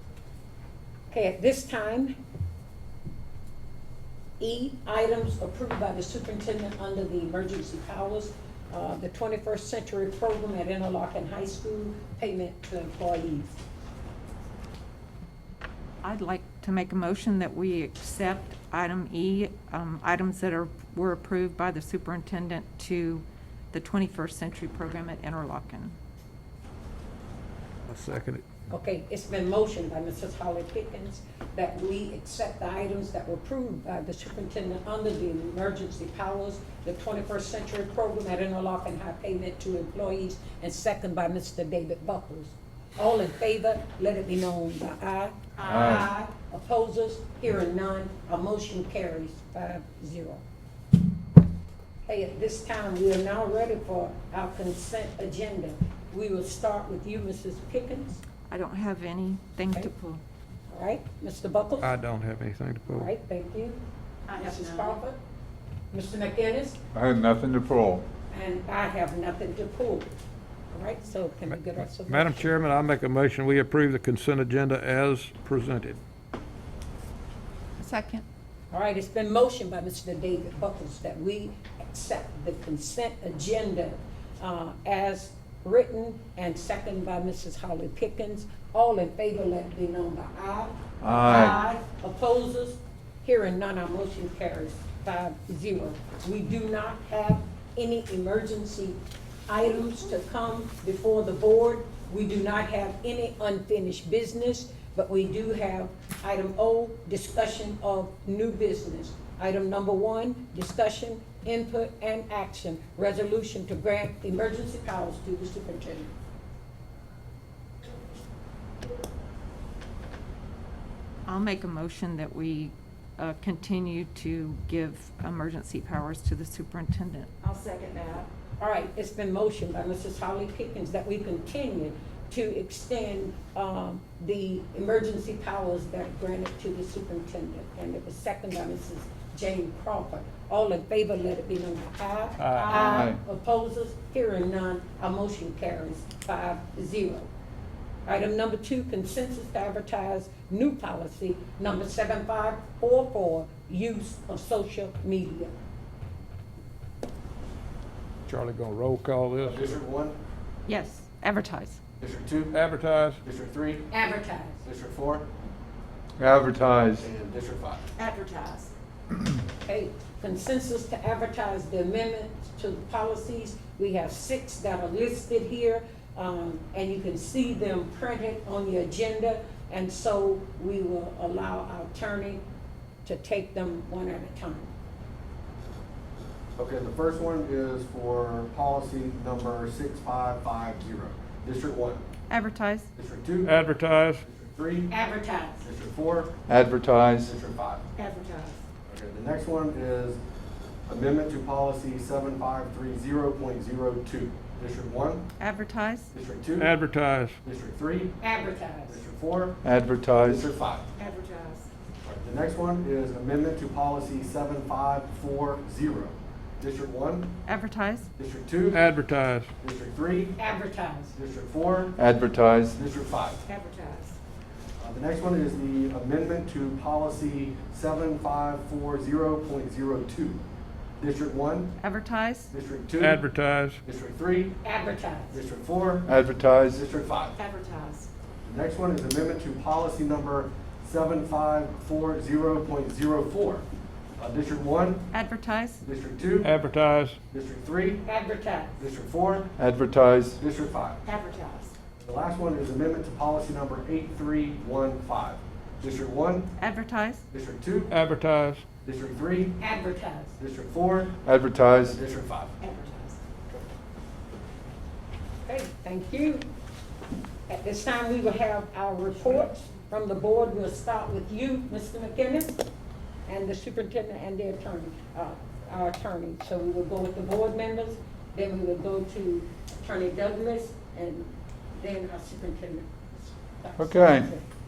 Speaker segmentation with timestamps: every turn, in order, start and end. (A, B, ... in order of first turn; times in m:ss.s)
0:01.1-0:02.2 A
0:04.4-0:13.6 A
0:16.0-0:26.0 B
0:27.9-0:28.4 C
0:28.7-0:50.4 A
0:45.6-0:46.1 D
0:45.6-0:46.1 E
0:52.0-0:58.2 A
0:58.5-1:00.2 B
1:00.7-1:01.9 A
1:01.8-1:03.1 C
1:02.9-1:03.8 A
1:04.3-1:05.0 D
1:04.3-1:05.2 A
1:05.9-1:06.8 A
1:06.9-1:08.0 E
1:08.3-1:10.1 A
1:10.7-1:12.6 A
1:11.6-1:16.0 C
1:17.8-1:18.2 B
1:18.7-1:56.1 A
1:31.0-1:31.6 E
2:01.3-2:07.3 B
2:07.4-2:08.3 D
2:08.6-2:27.3 A
2:22.4-2:22.7 C
2:22.7-2:23.2 E
2:28.0-2:35.5 A
2:38.3-2:39.8 C
2:39.4-2:40.2 F
2:40.6-2:41.8 B
2:42.0-2:42.5 F
2:42.5-2:43.2 C
2:43.2-2:43.9 F
2:43.9-2:44.6 A
2:44.6-2:45.2 F
2:46.2-2:47.1 E
2:47.0-2:47.8 F
2:48.0-2:48.7 D
2:49.6-3:02.4 A
3:03.0-3:04.7 A
3:06.6-3:12.0 F
3:12.3-3:12.9 B
3:13.0-3:13.6 F
3:13.4-3:14.2 C
3:14.3-3:14.9 F
3:14.9-3:15.6 A
3:15.6-3:16.3 F
3:16.5-3:17.3 E
3:17.2-3:17.8 F
3:18.0-3:18.6 D
3:18.9-3:20.2 F
3:20.9-3:25.2 F
3:25.4-3:26.1 B
3:26.1-3:26.7 F
3:26.6-3:27.4 C
3:27.4-3:28.2 F
3:28.2-3:29.0 A
3:28.8-3:29.6 F
3:29.6-3:30.4 E
3:30.2-3:30.8 F
3:31.0-3:31.7 D
3:32.0-3:37.3 F
3:37.4-3:38.1 B
3:38.2-3:38.8 F
3:38.7-3:39.5 C
3:39.6-3:40.3 F
3:40.4-3:41.1 A
3:41.1-3:41.9 F
3:42.0-3:42.8 E
3:42.8-3:43.4 F
3:43.5-3:44.1 D
3:44.8-3:50.4 F
3:51.0-3:51.7 F
3:51.8-3:52.5 B
3:52.5-3:53.2 F
3:53.0-3:53.8 C
3:53.8-3:54.6 F
3:54.6-3:55.4 A
3:55.3-3:56.1 F
3:56.0-3:56.8 E
3:56.7-3:57.3 F
3:57.4-3:58.1 D
3:58.4-4:03.6 F
4:04.2-4:05.0 F
4:05.1-4:05.8 B
4:05.8-4:06.5 F
4:06.4-4:07.2 C
4:07.3-4:08.0 F
4:08.0-4:08.8 A
4:08.8-4:09.5 F
4:09.6-4:10.4 E
4:10.4-4:11.0 F
4:11.0-4:11.7 D
4:12.0-4:16.5 F
4:16.6-4:17.2 B
4:17.3-4:17.9 F
4:17.9-4:18.6 C
4:18.8-4:19.5 F
4:19.6-4:20.4 A
4:20.4-4:21.1 F
4:21.2-4:22.0 E
4:21.9-4:22.5 F
4:22.6-4:23.2 D
4:25.4-4:26.4 A
4:27.5-4:32.6 A
4:33.2-4:44.4 A
4:43.8-4:44.3 E